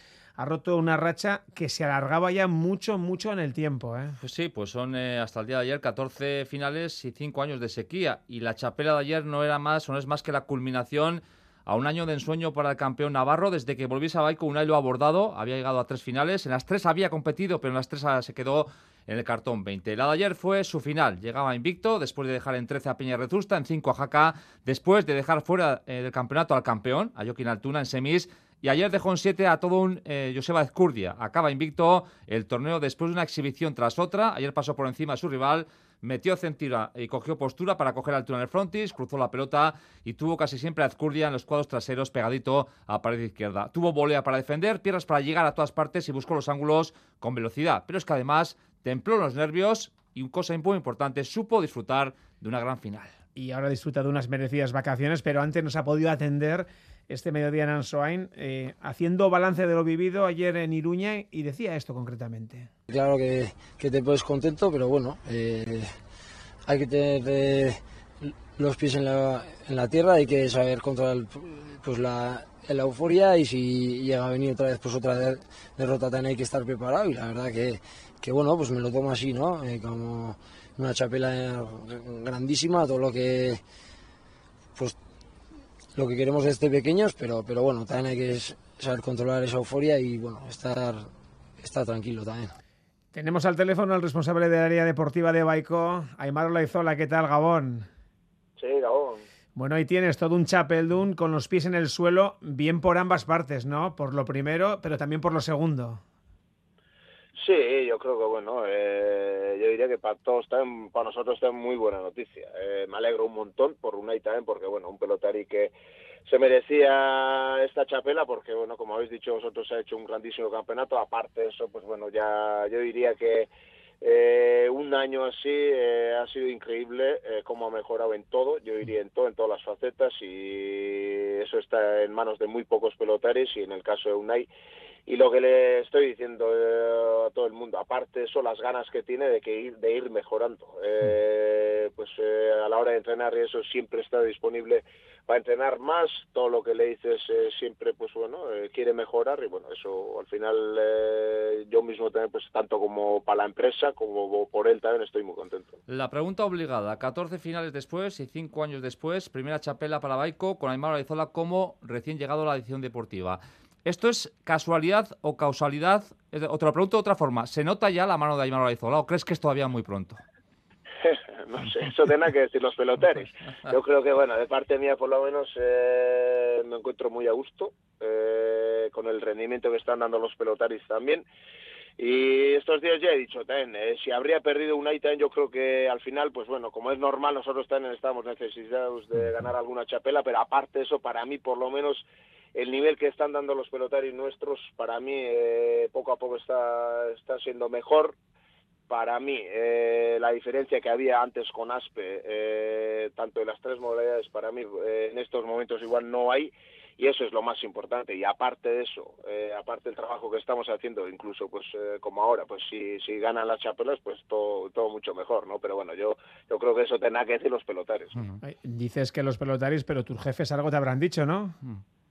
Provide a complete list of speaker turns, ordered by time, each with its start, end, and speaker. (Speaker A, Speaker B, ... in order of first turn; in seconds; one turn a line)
Speaker A: 0.4-4.2
Speaker B: 4.2-53.2
Speaker A: 53.4-62.7
Speaker C: 62.9-65.9
Speaker C: 66.7-83.6
Speaker C: 86.0-92.5
Speaker A: 93.1-97.9
Speaker D: 98.6-99.2
Speaker A: 99.5-106.0
Speaker D: 107.4-115.7
Speaker D: 116.3-123.5
Speaker D: 124.0-134.5
Speaker D: 135.1-155.7
Speaker B: 155.9-170.2
Speaker D: 171.0-181.2
Speaker D: 182.0-198.2
Speaker D: 198.9-218.2
Speaker A: 218.4-221.6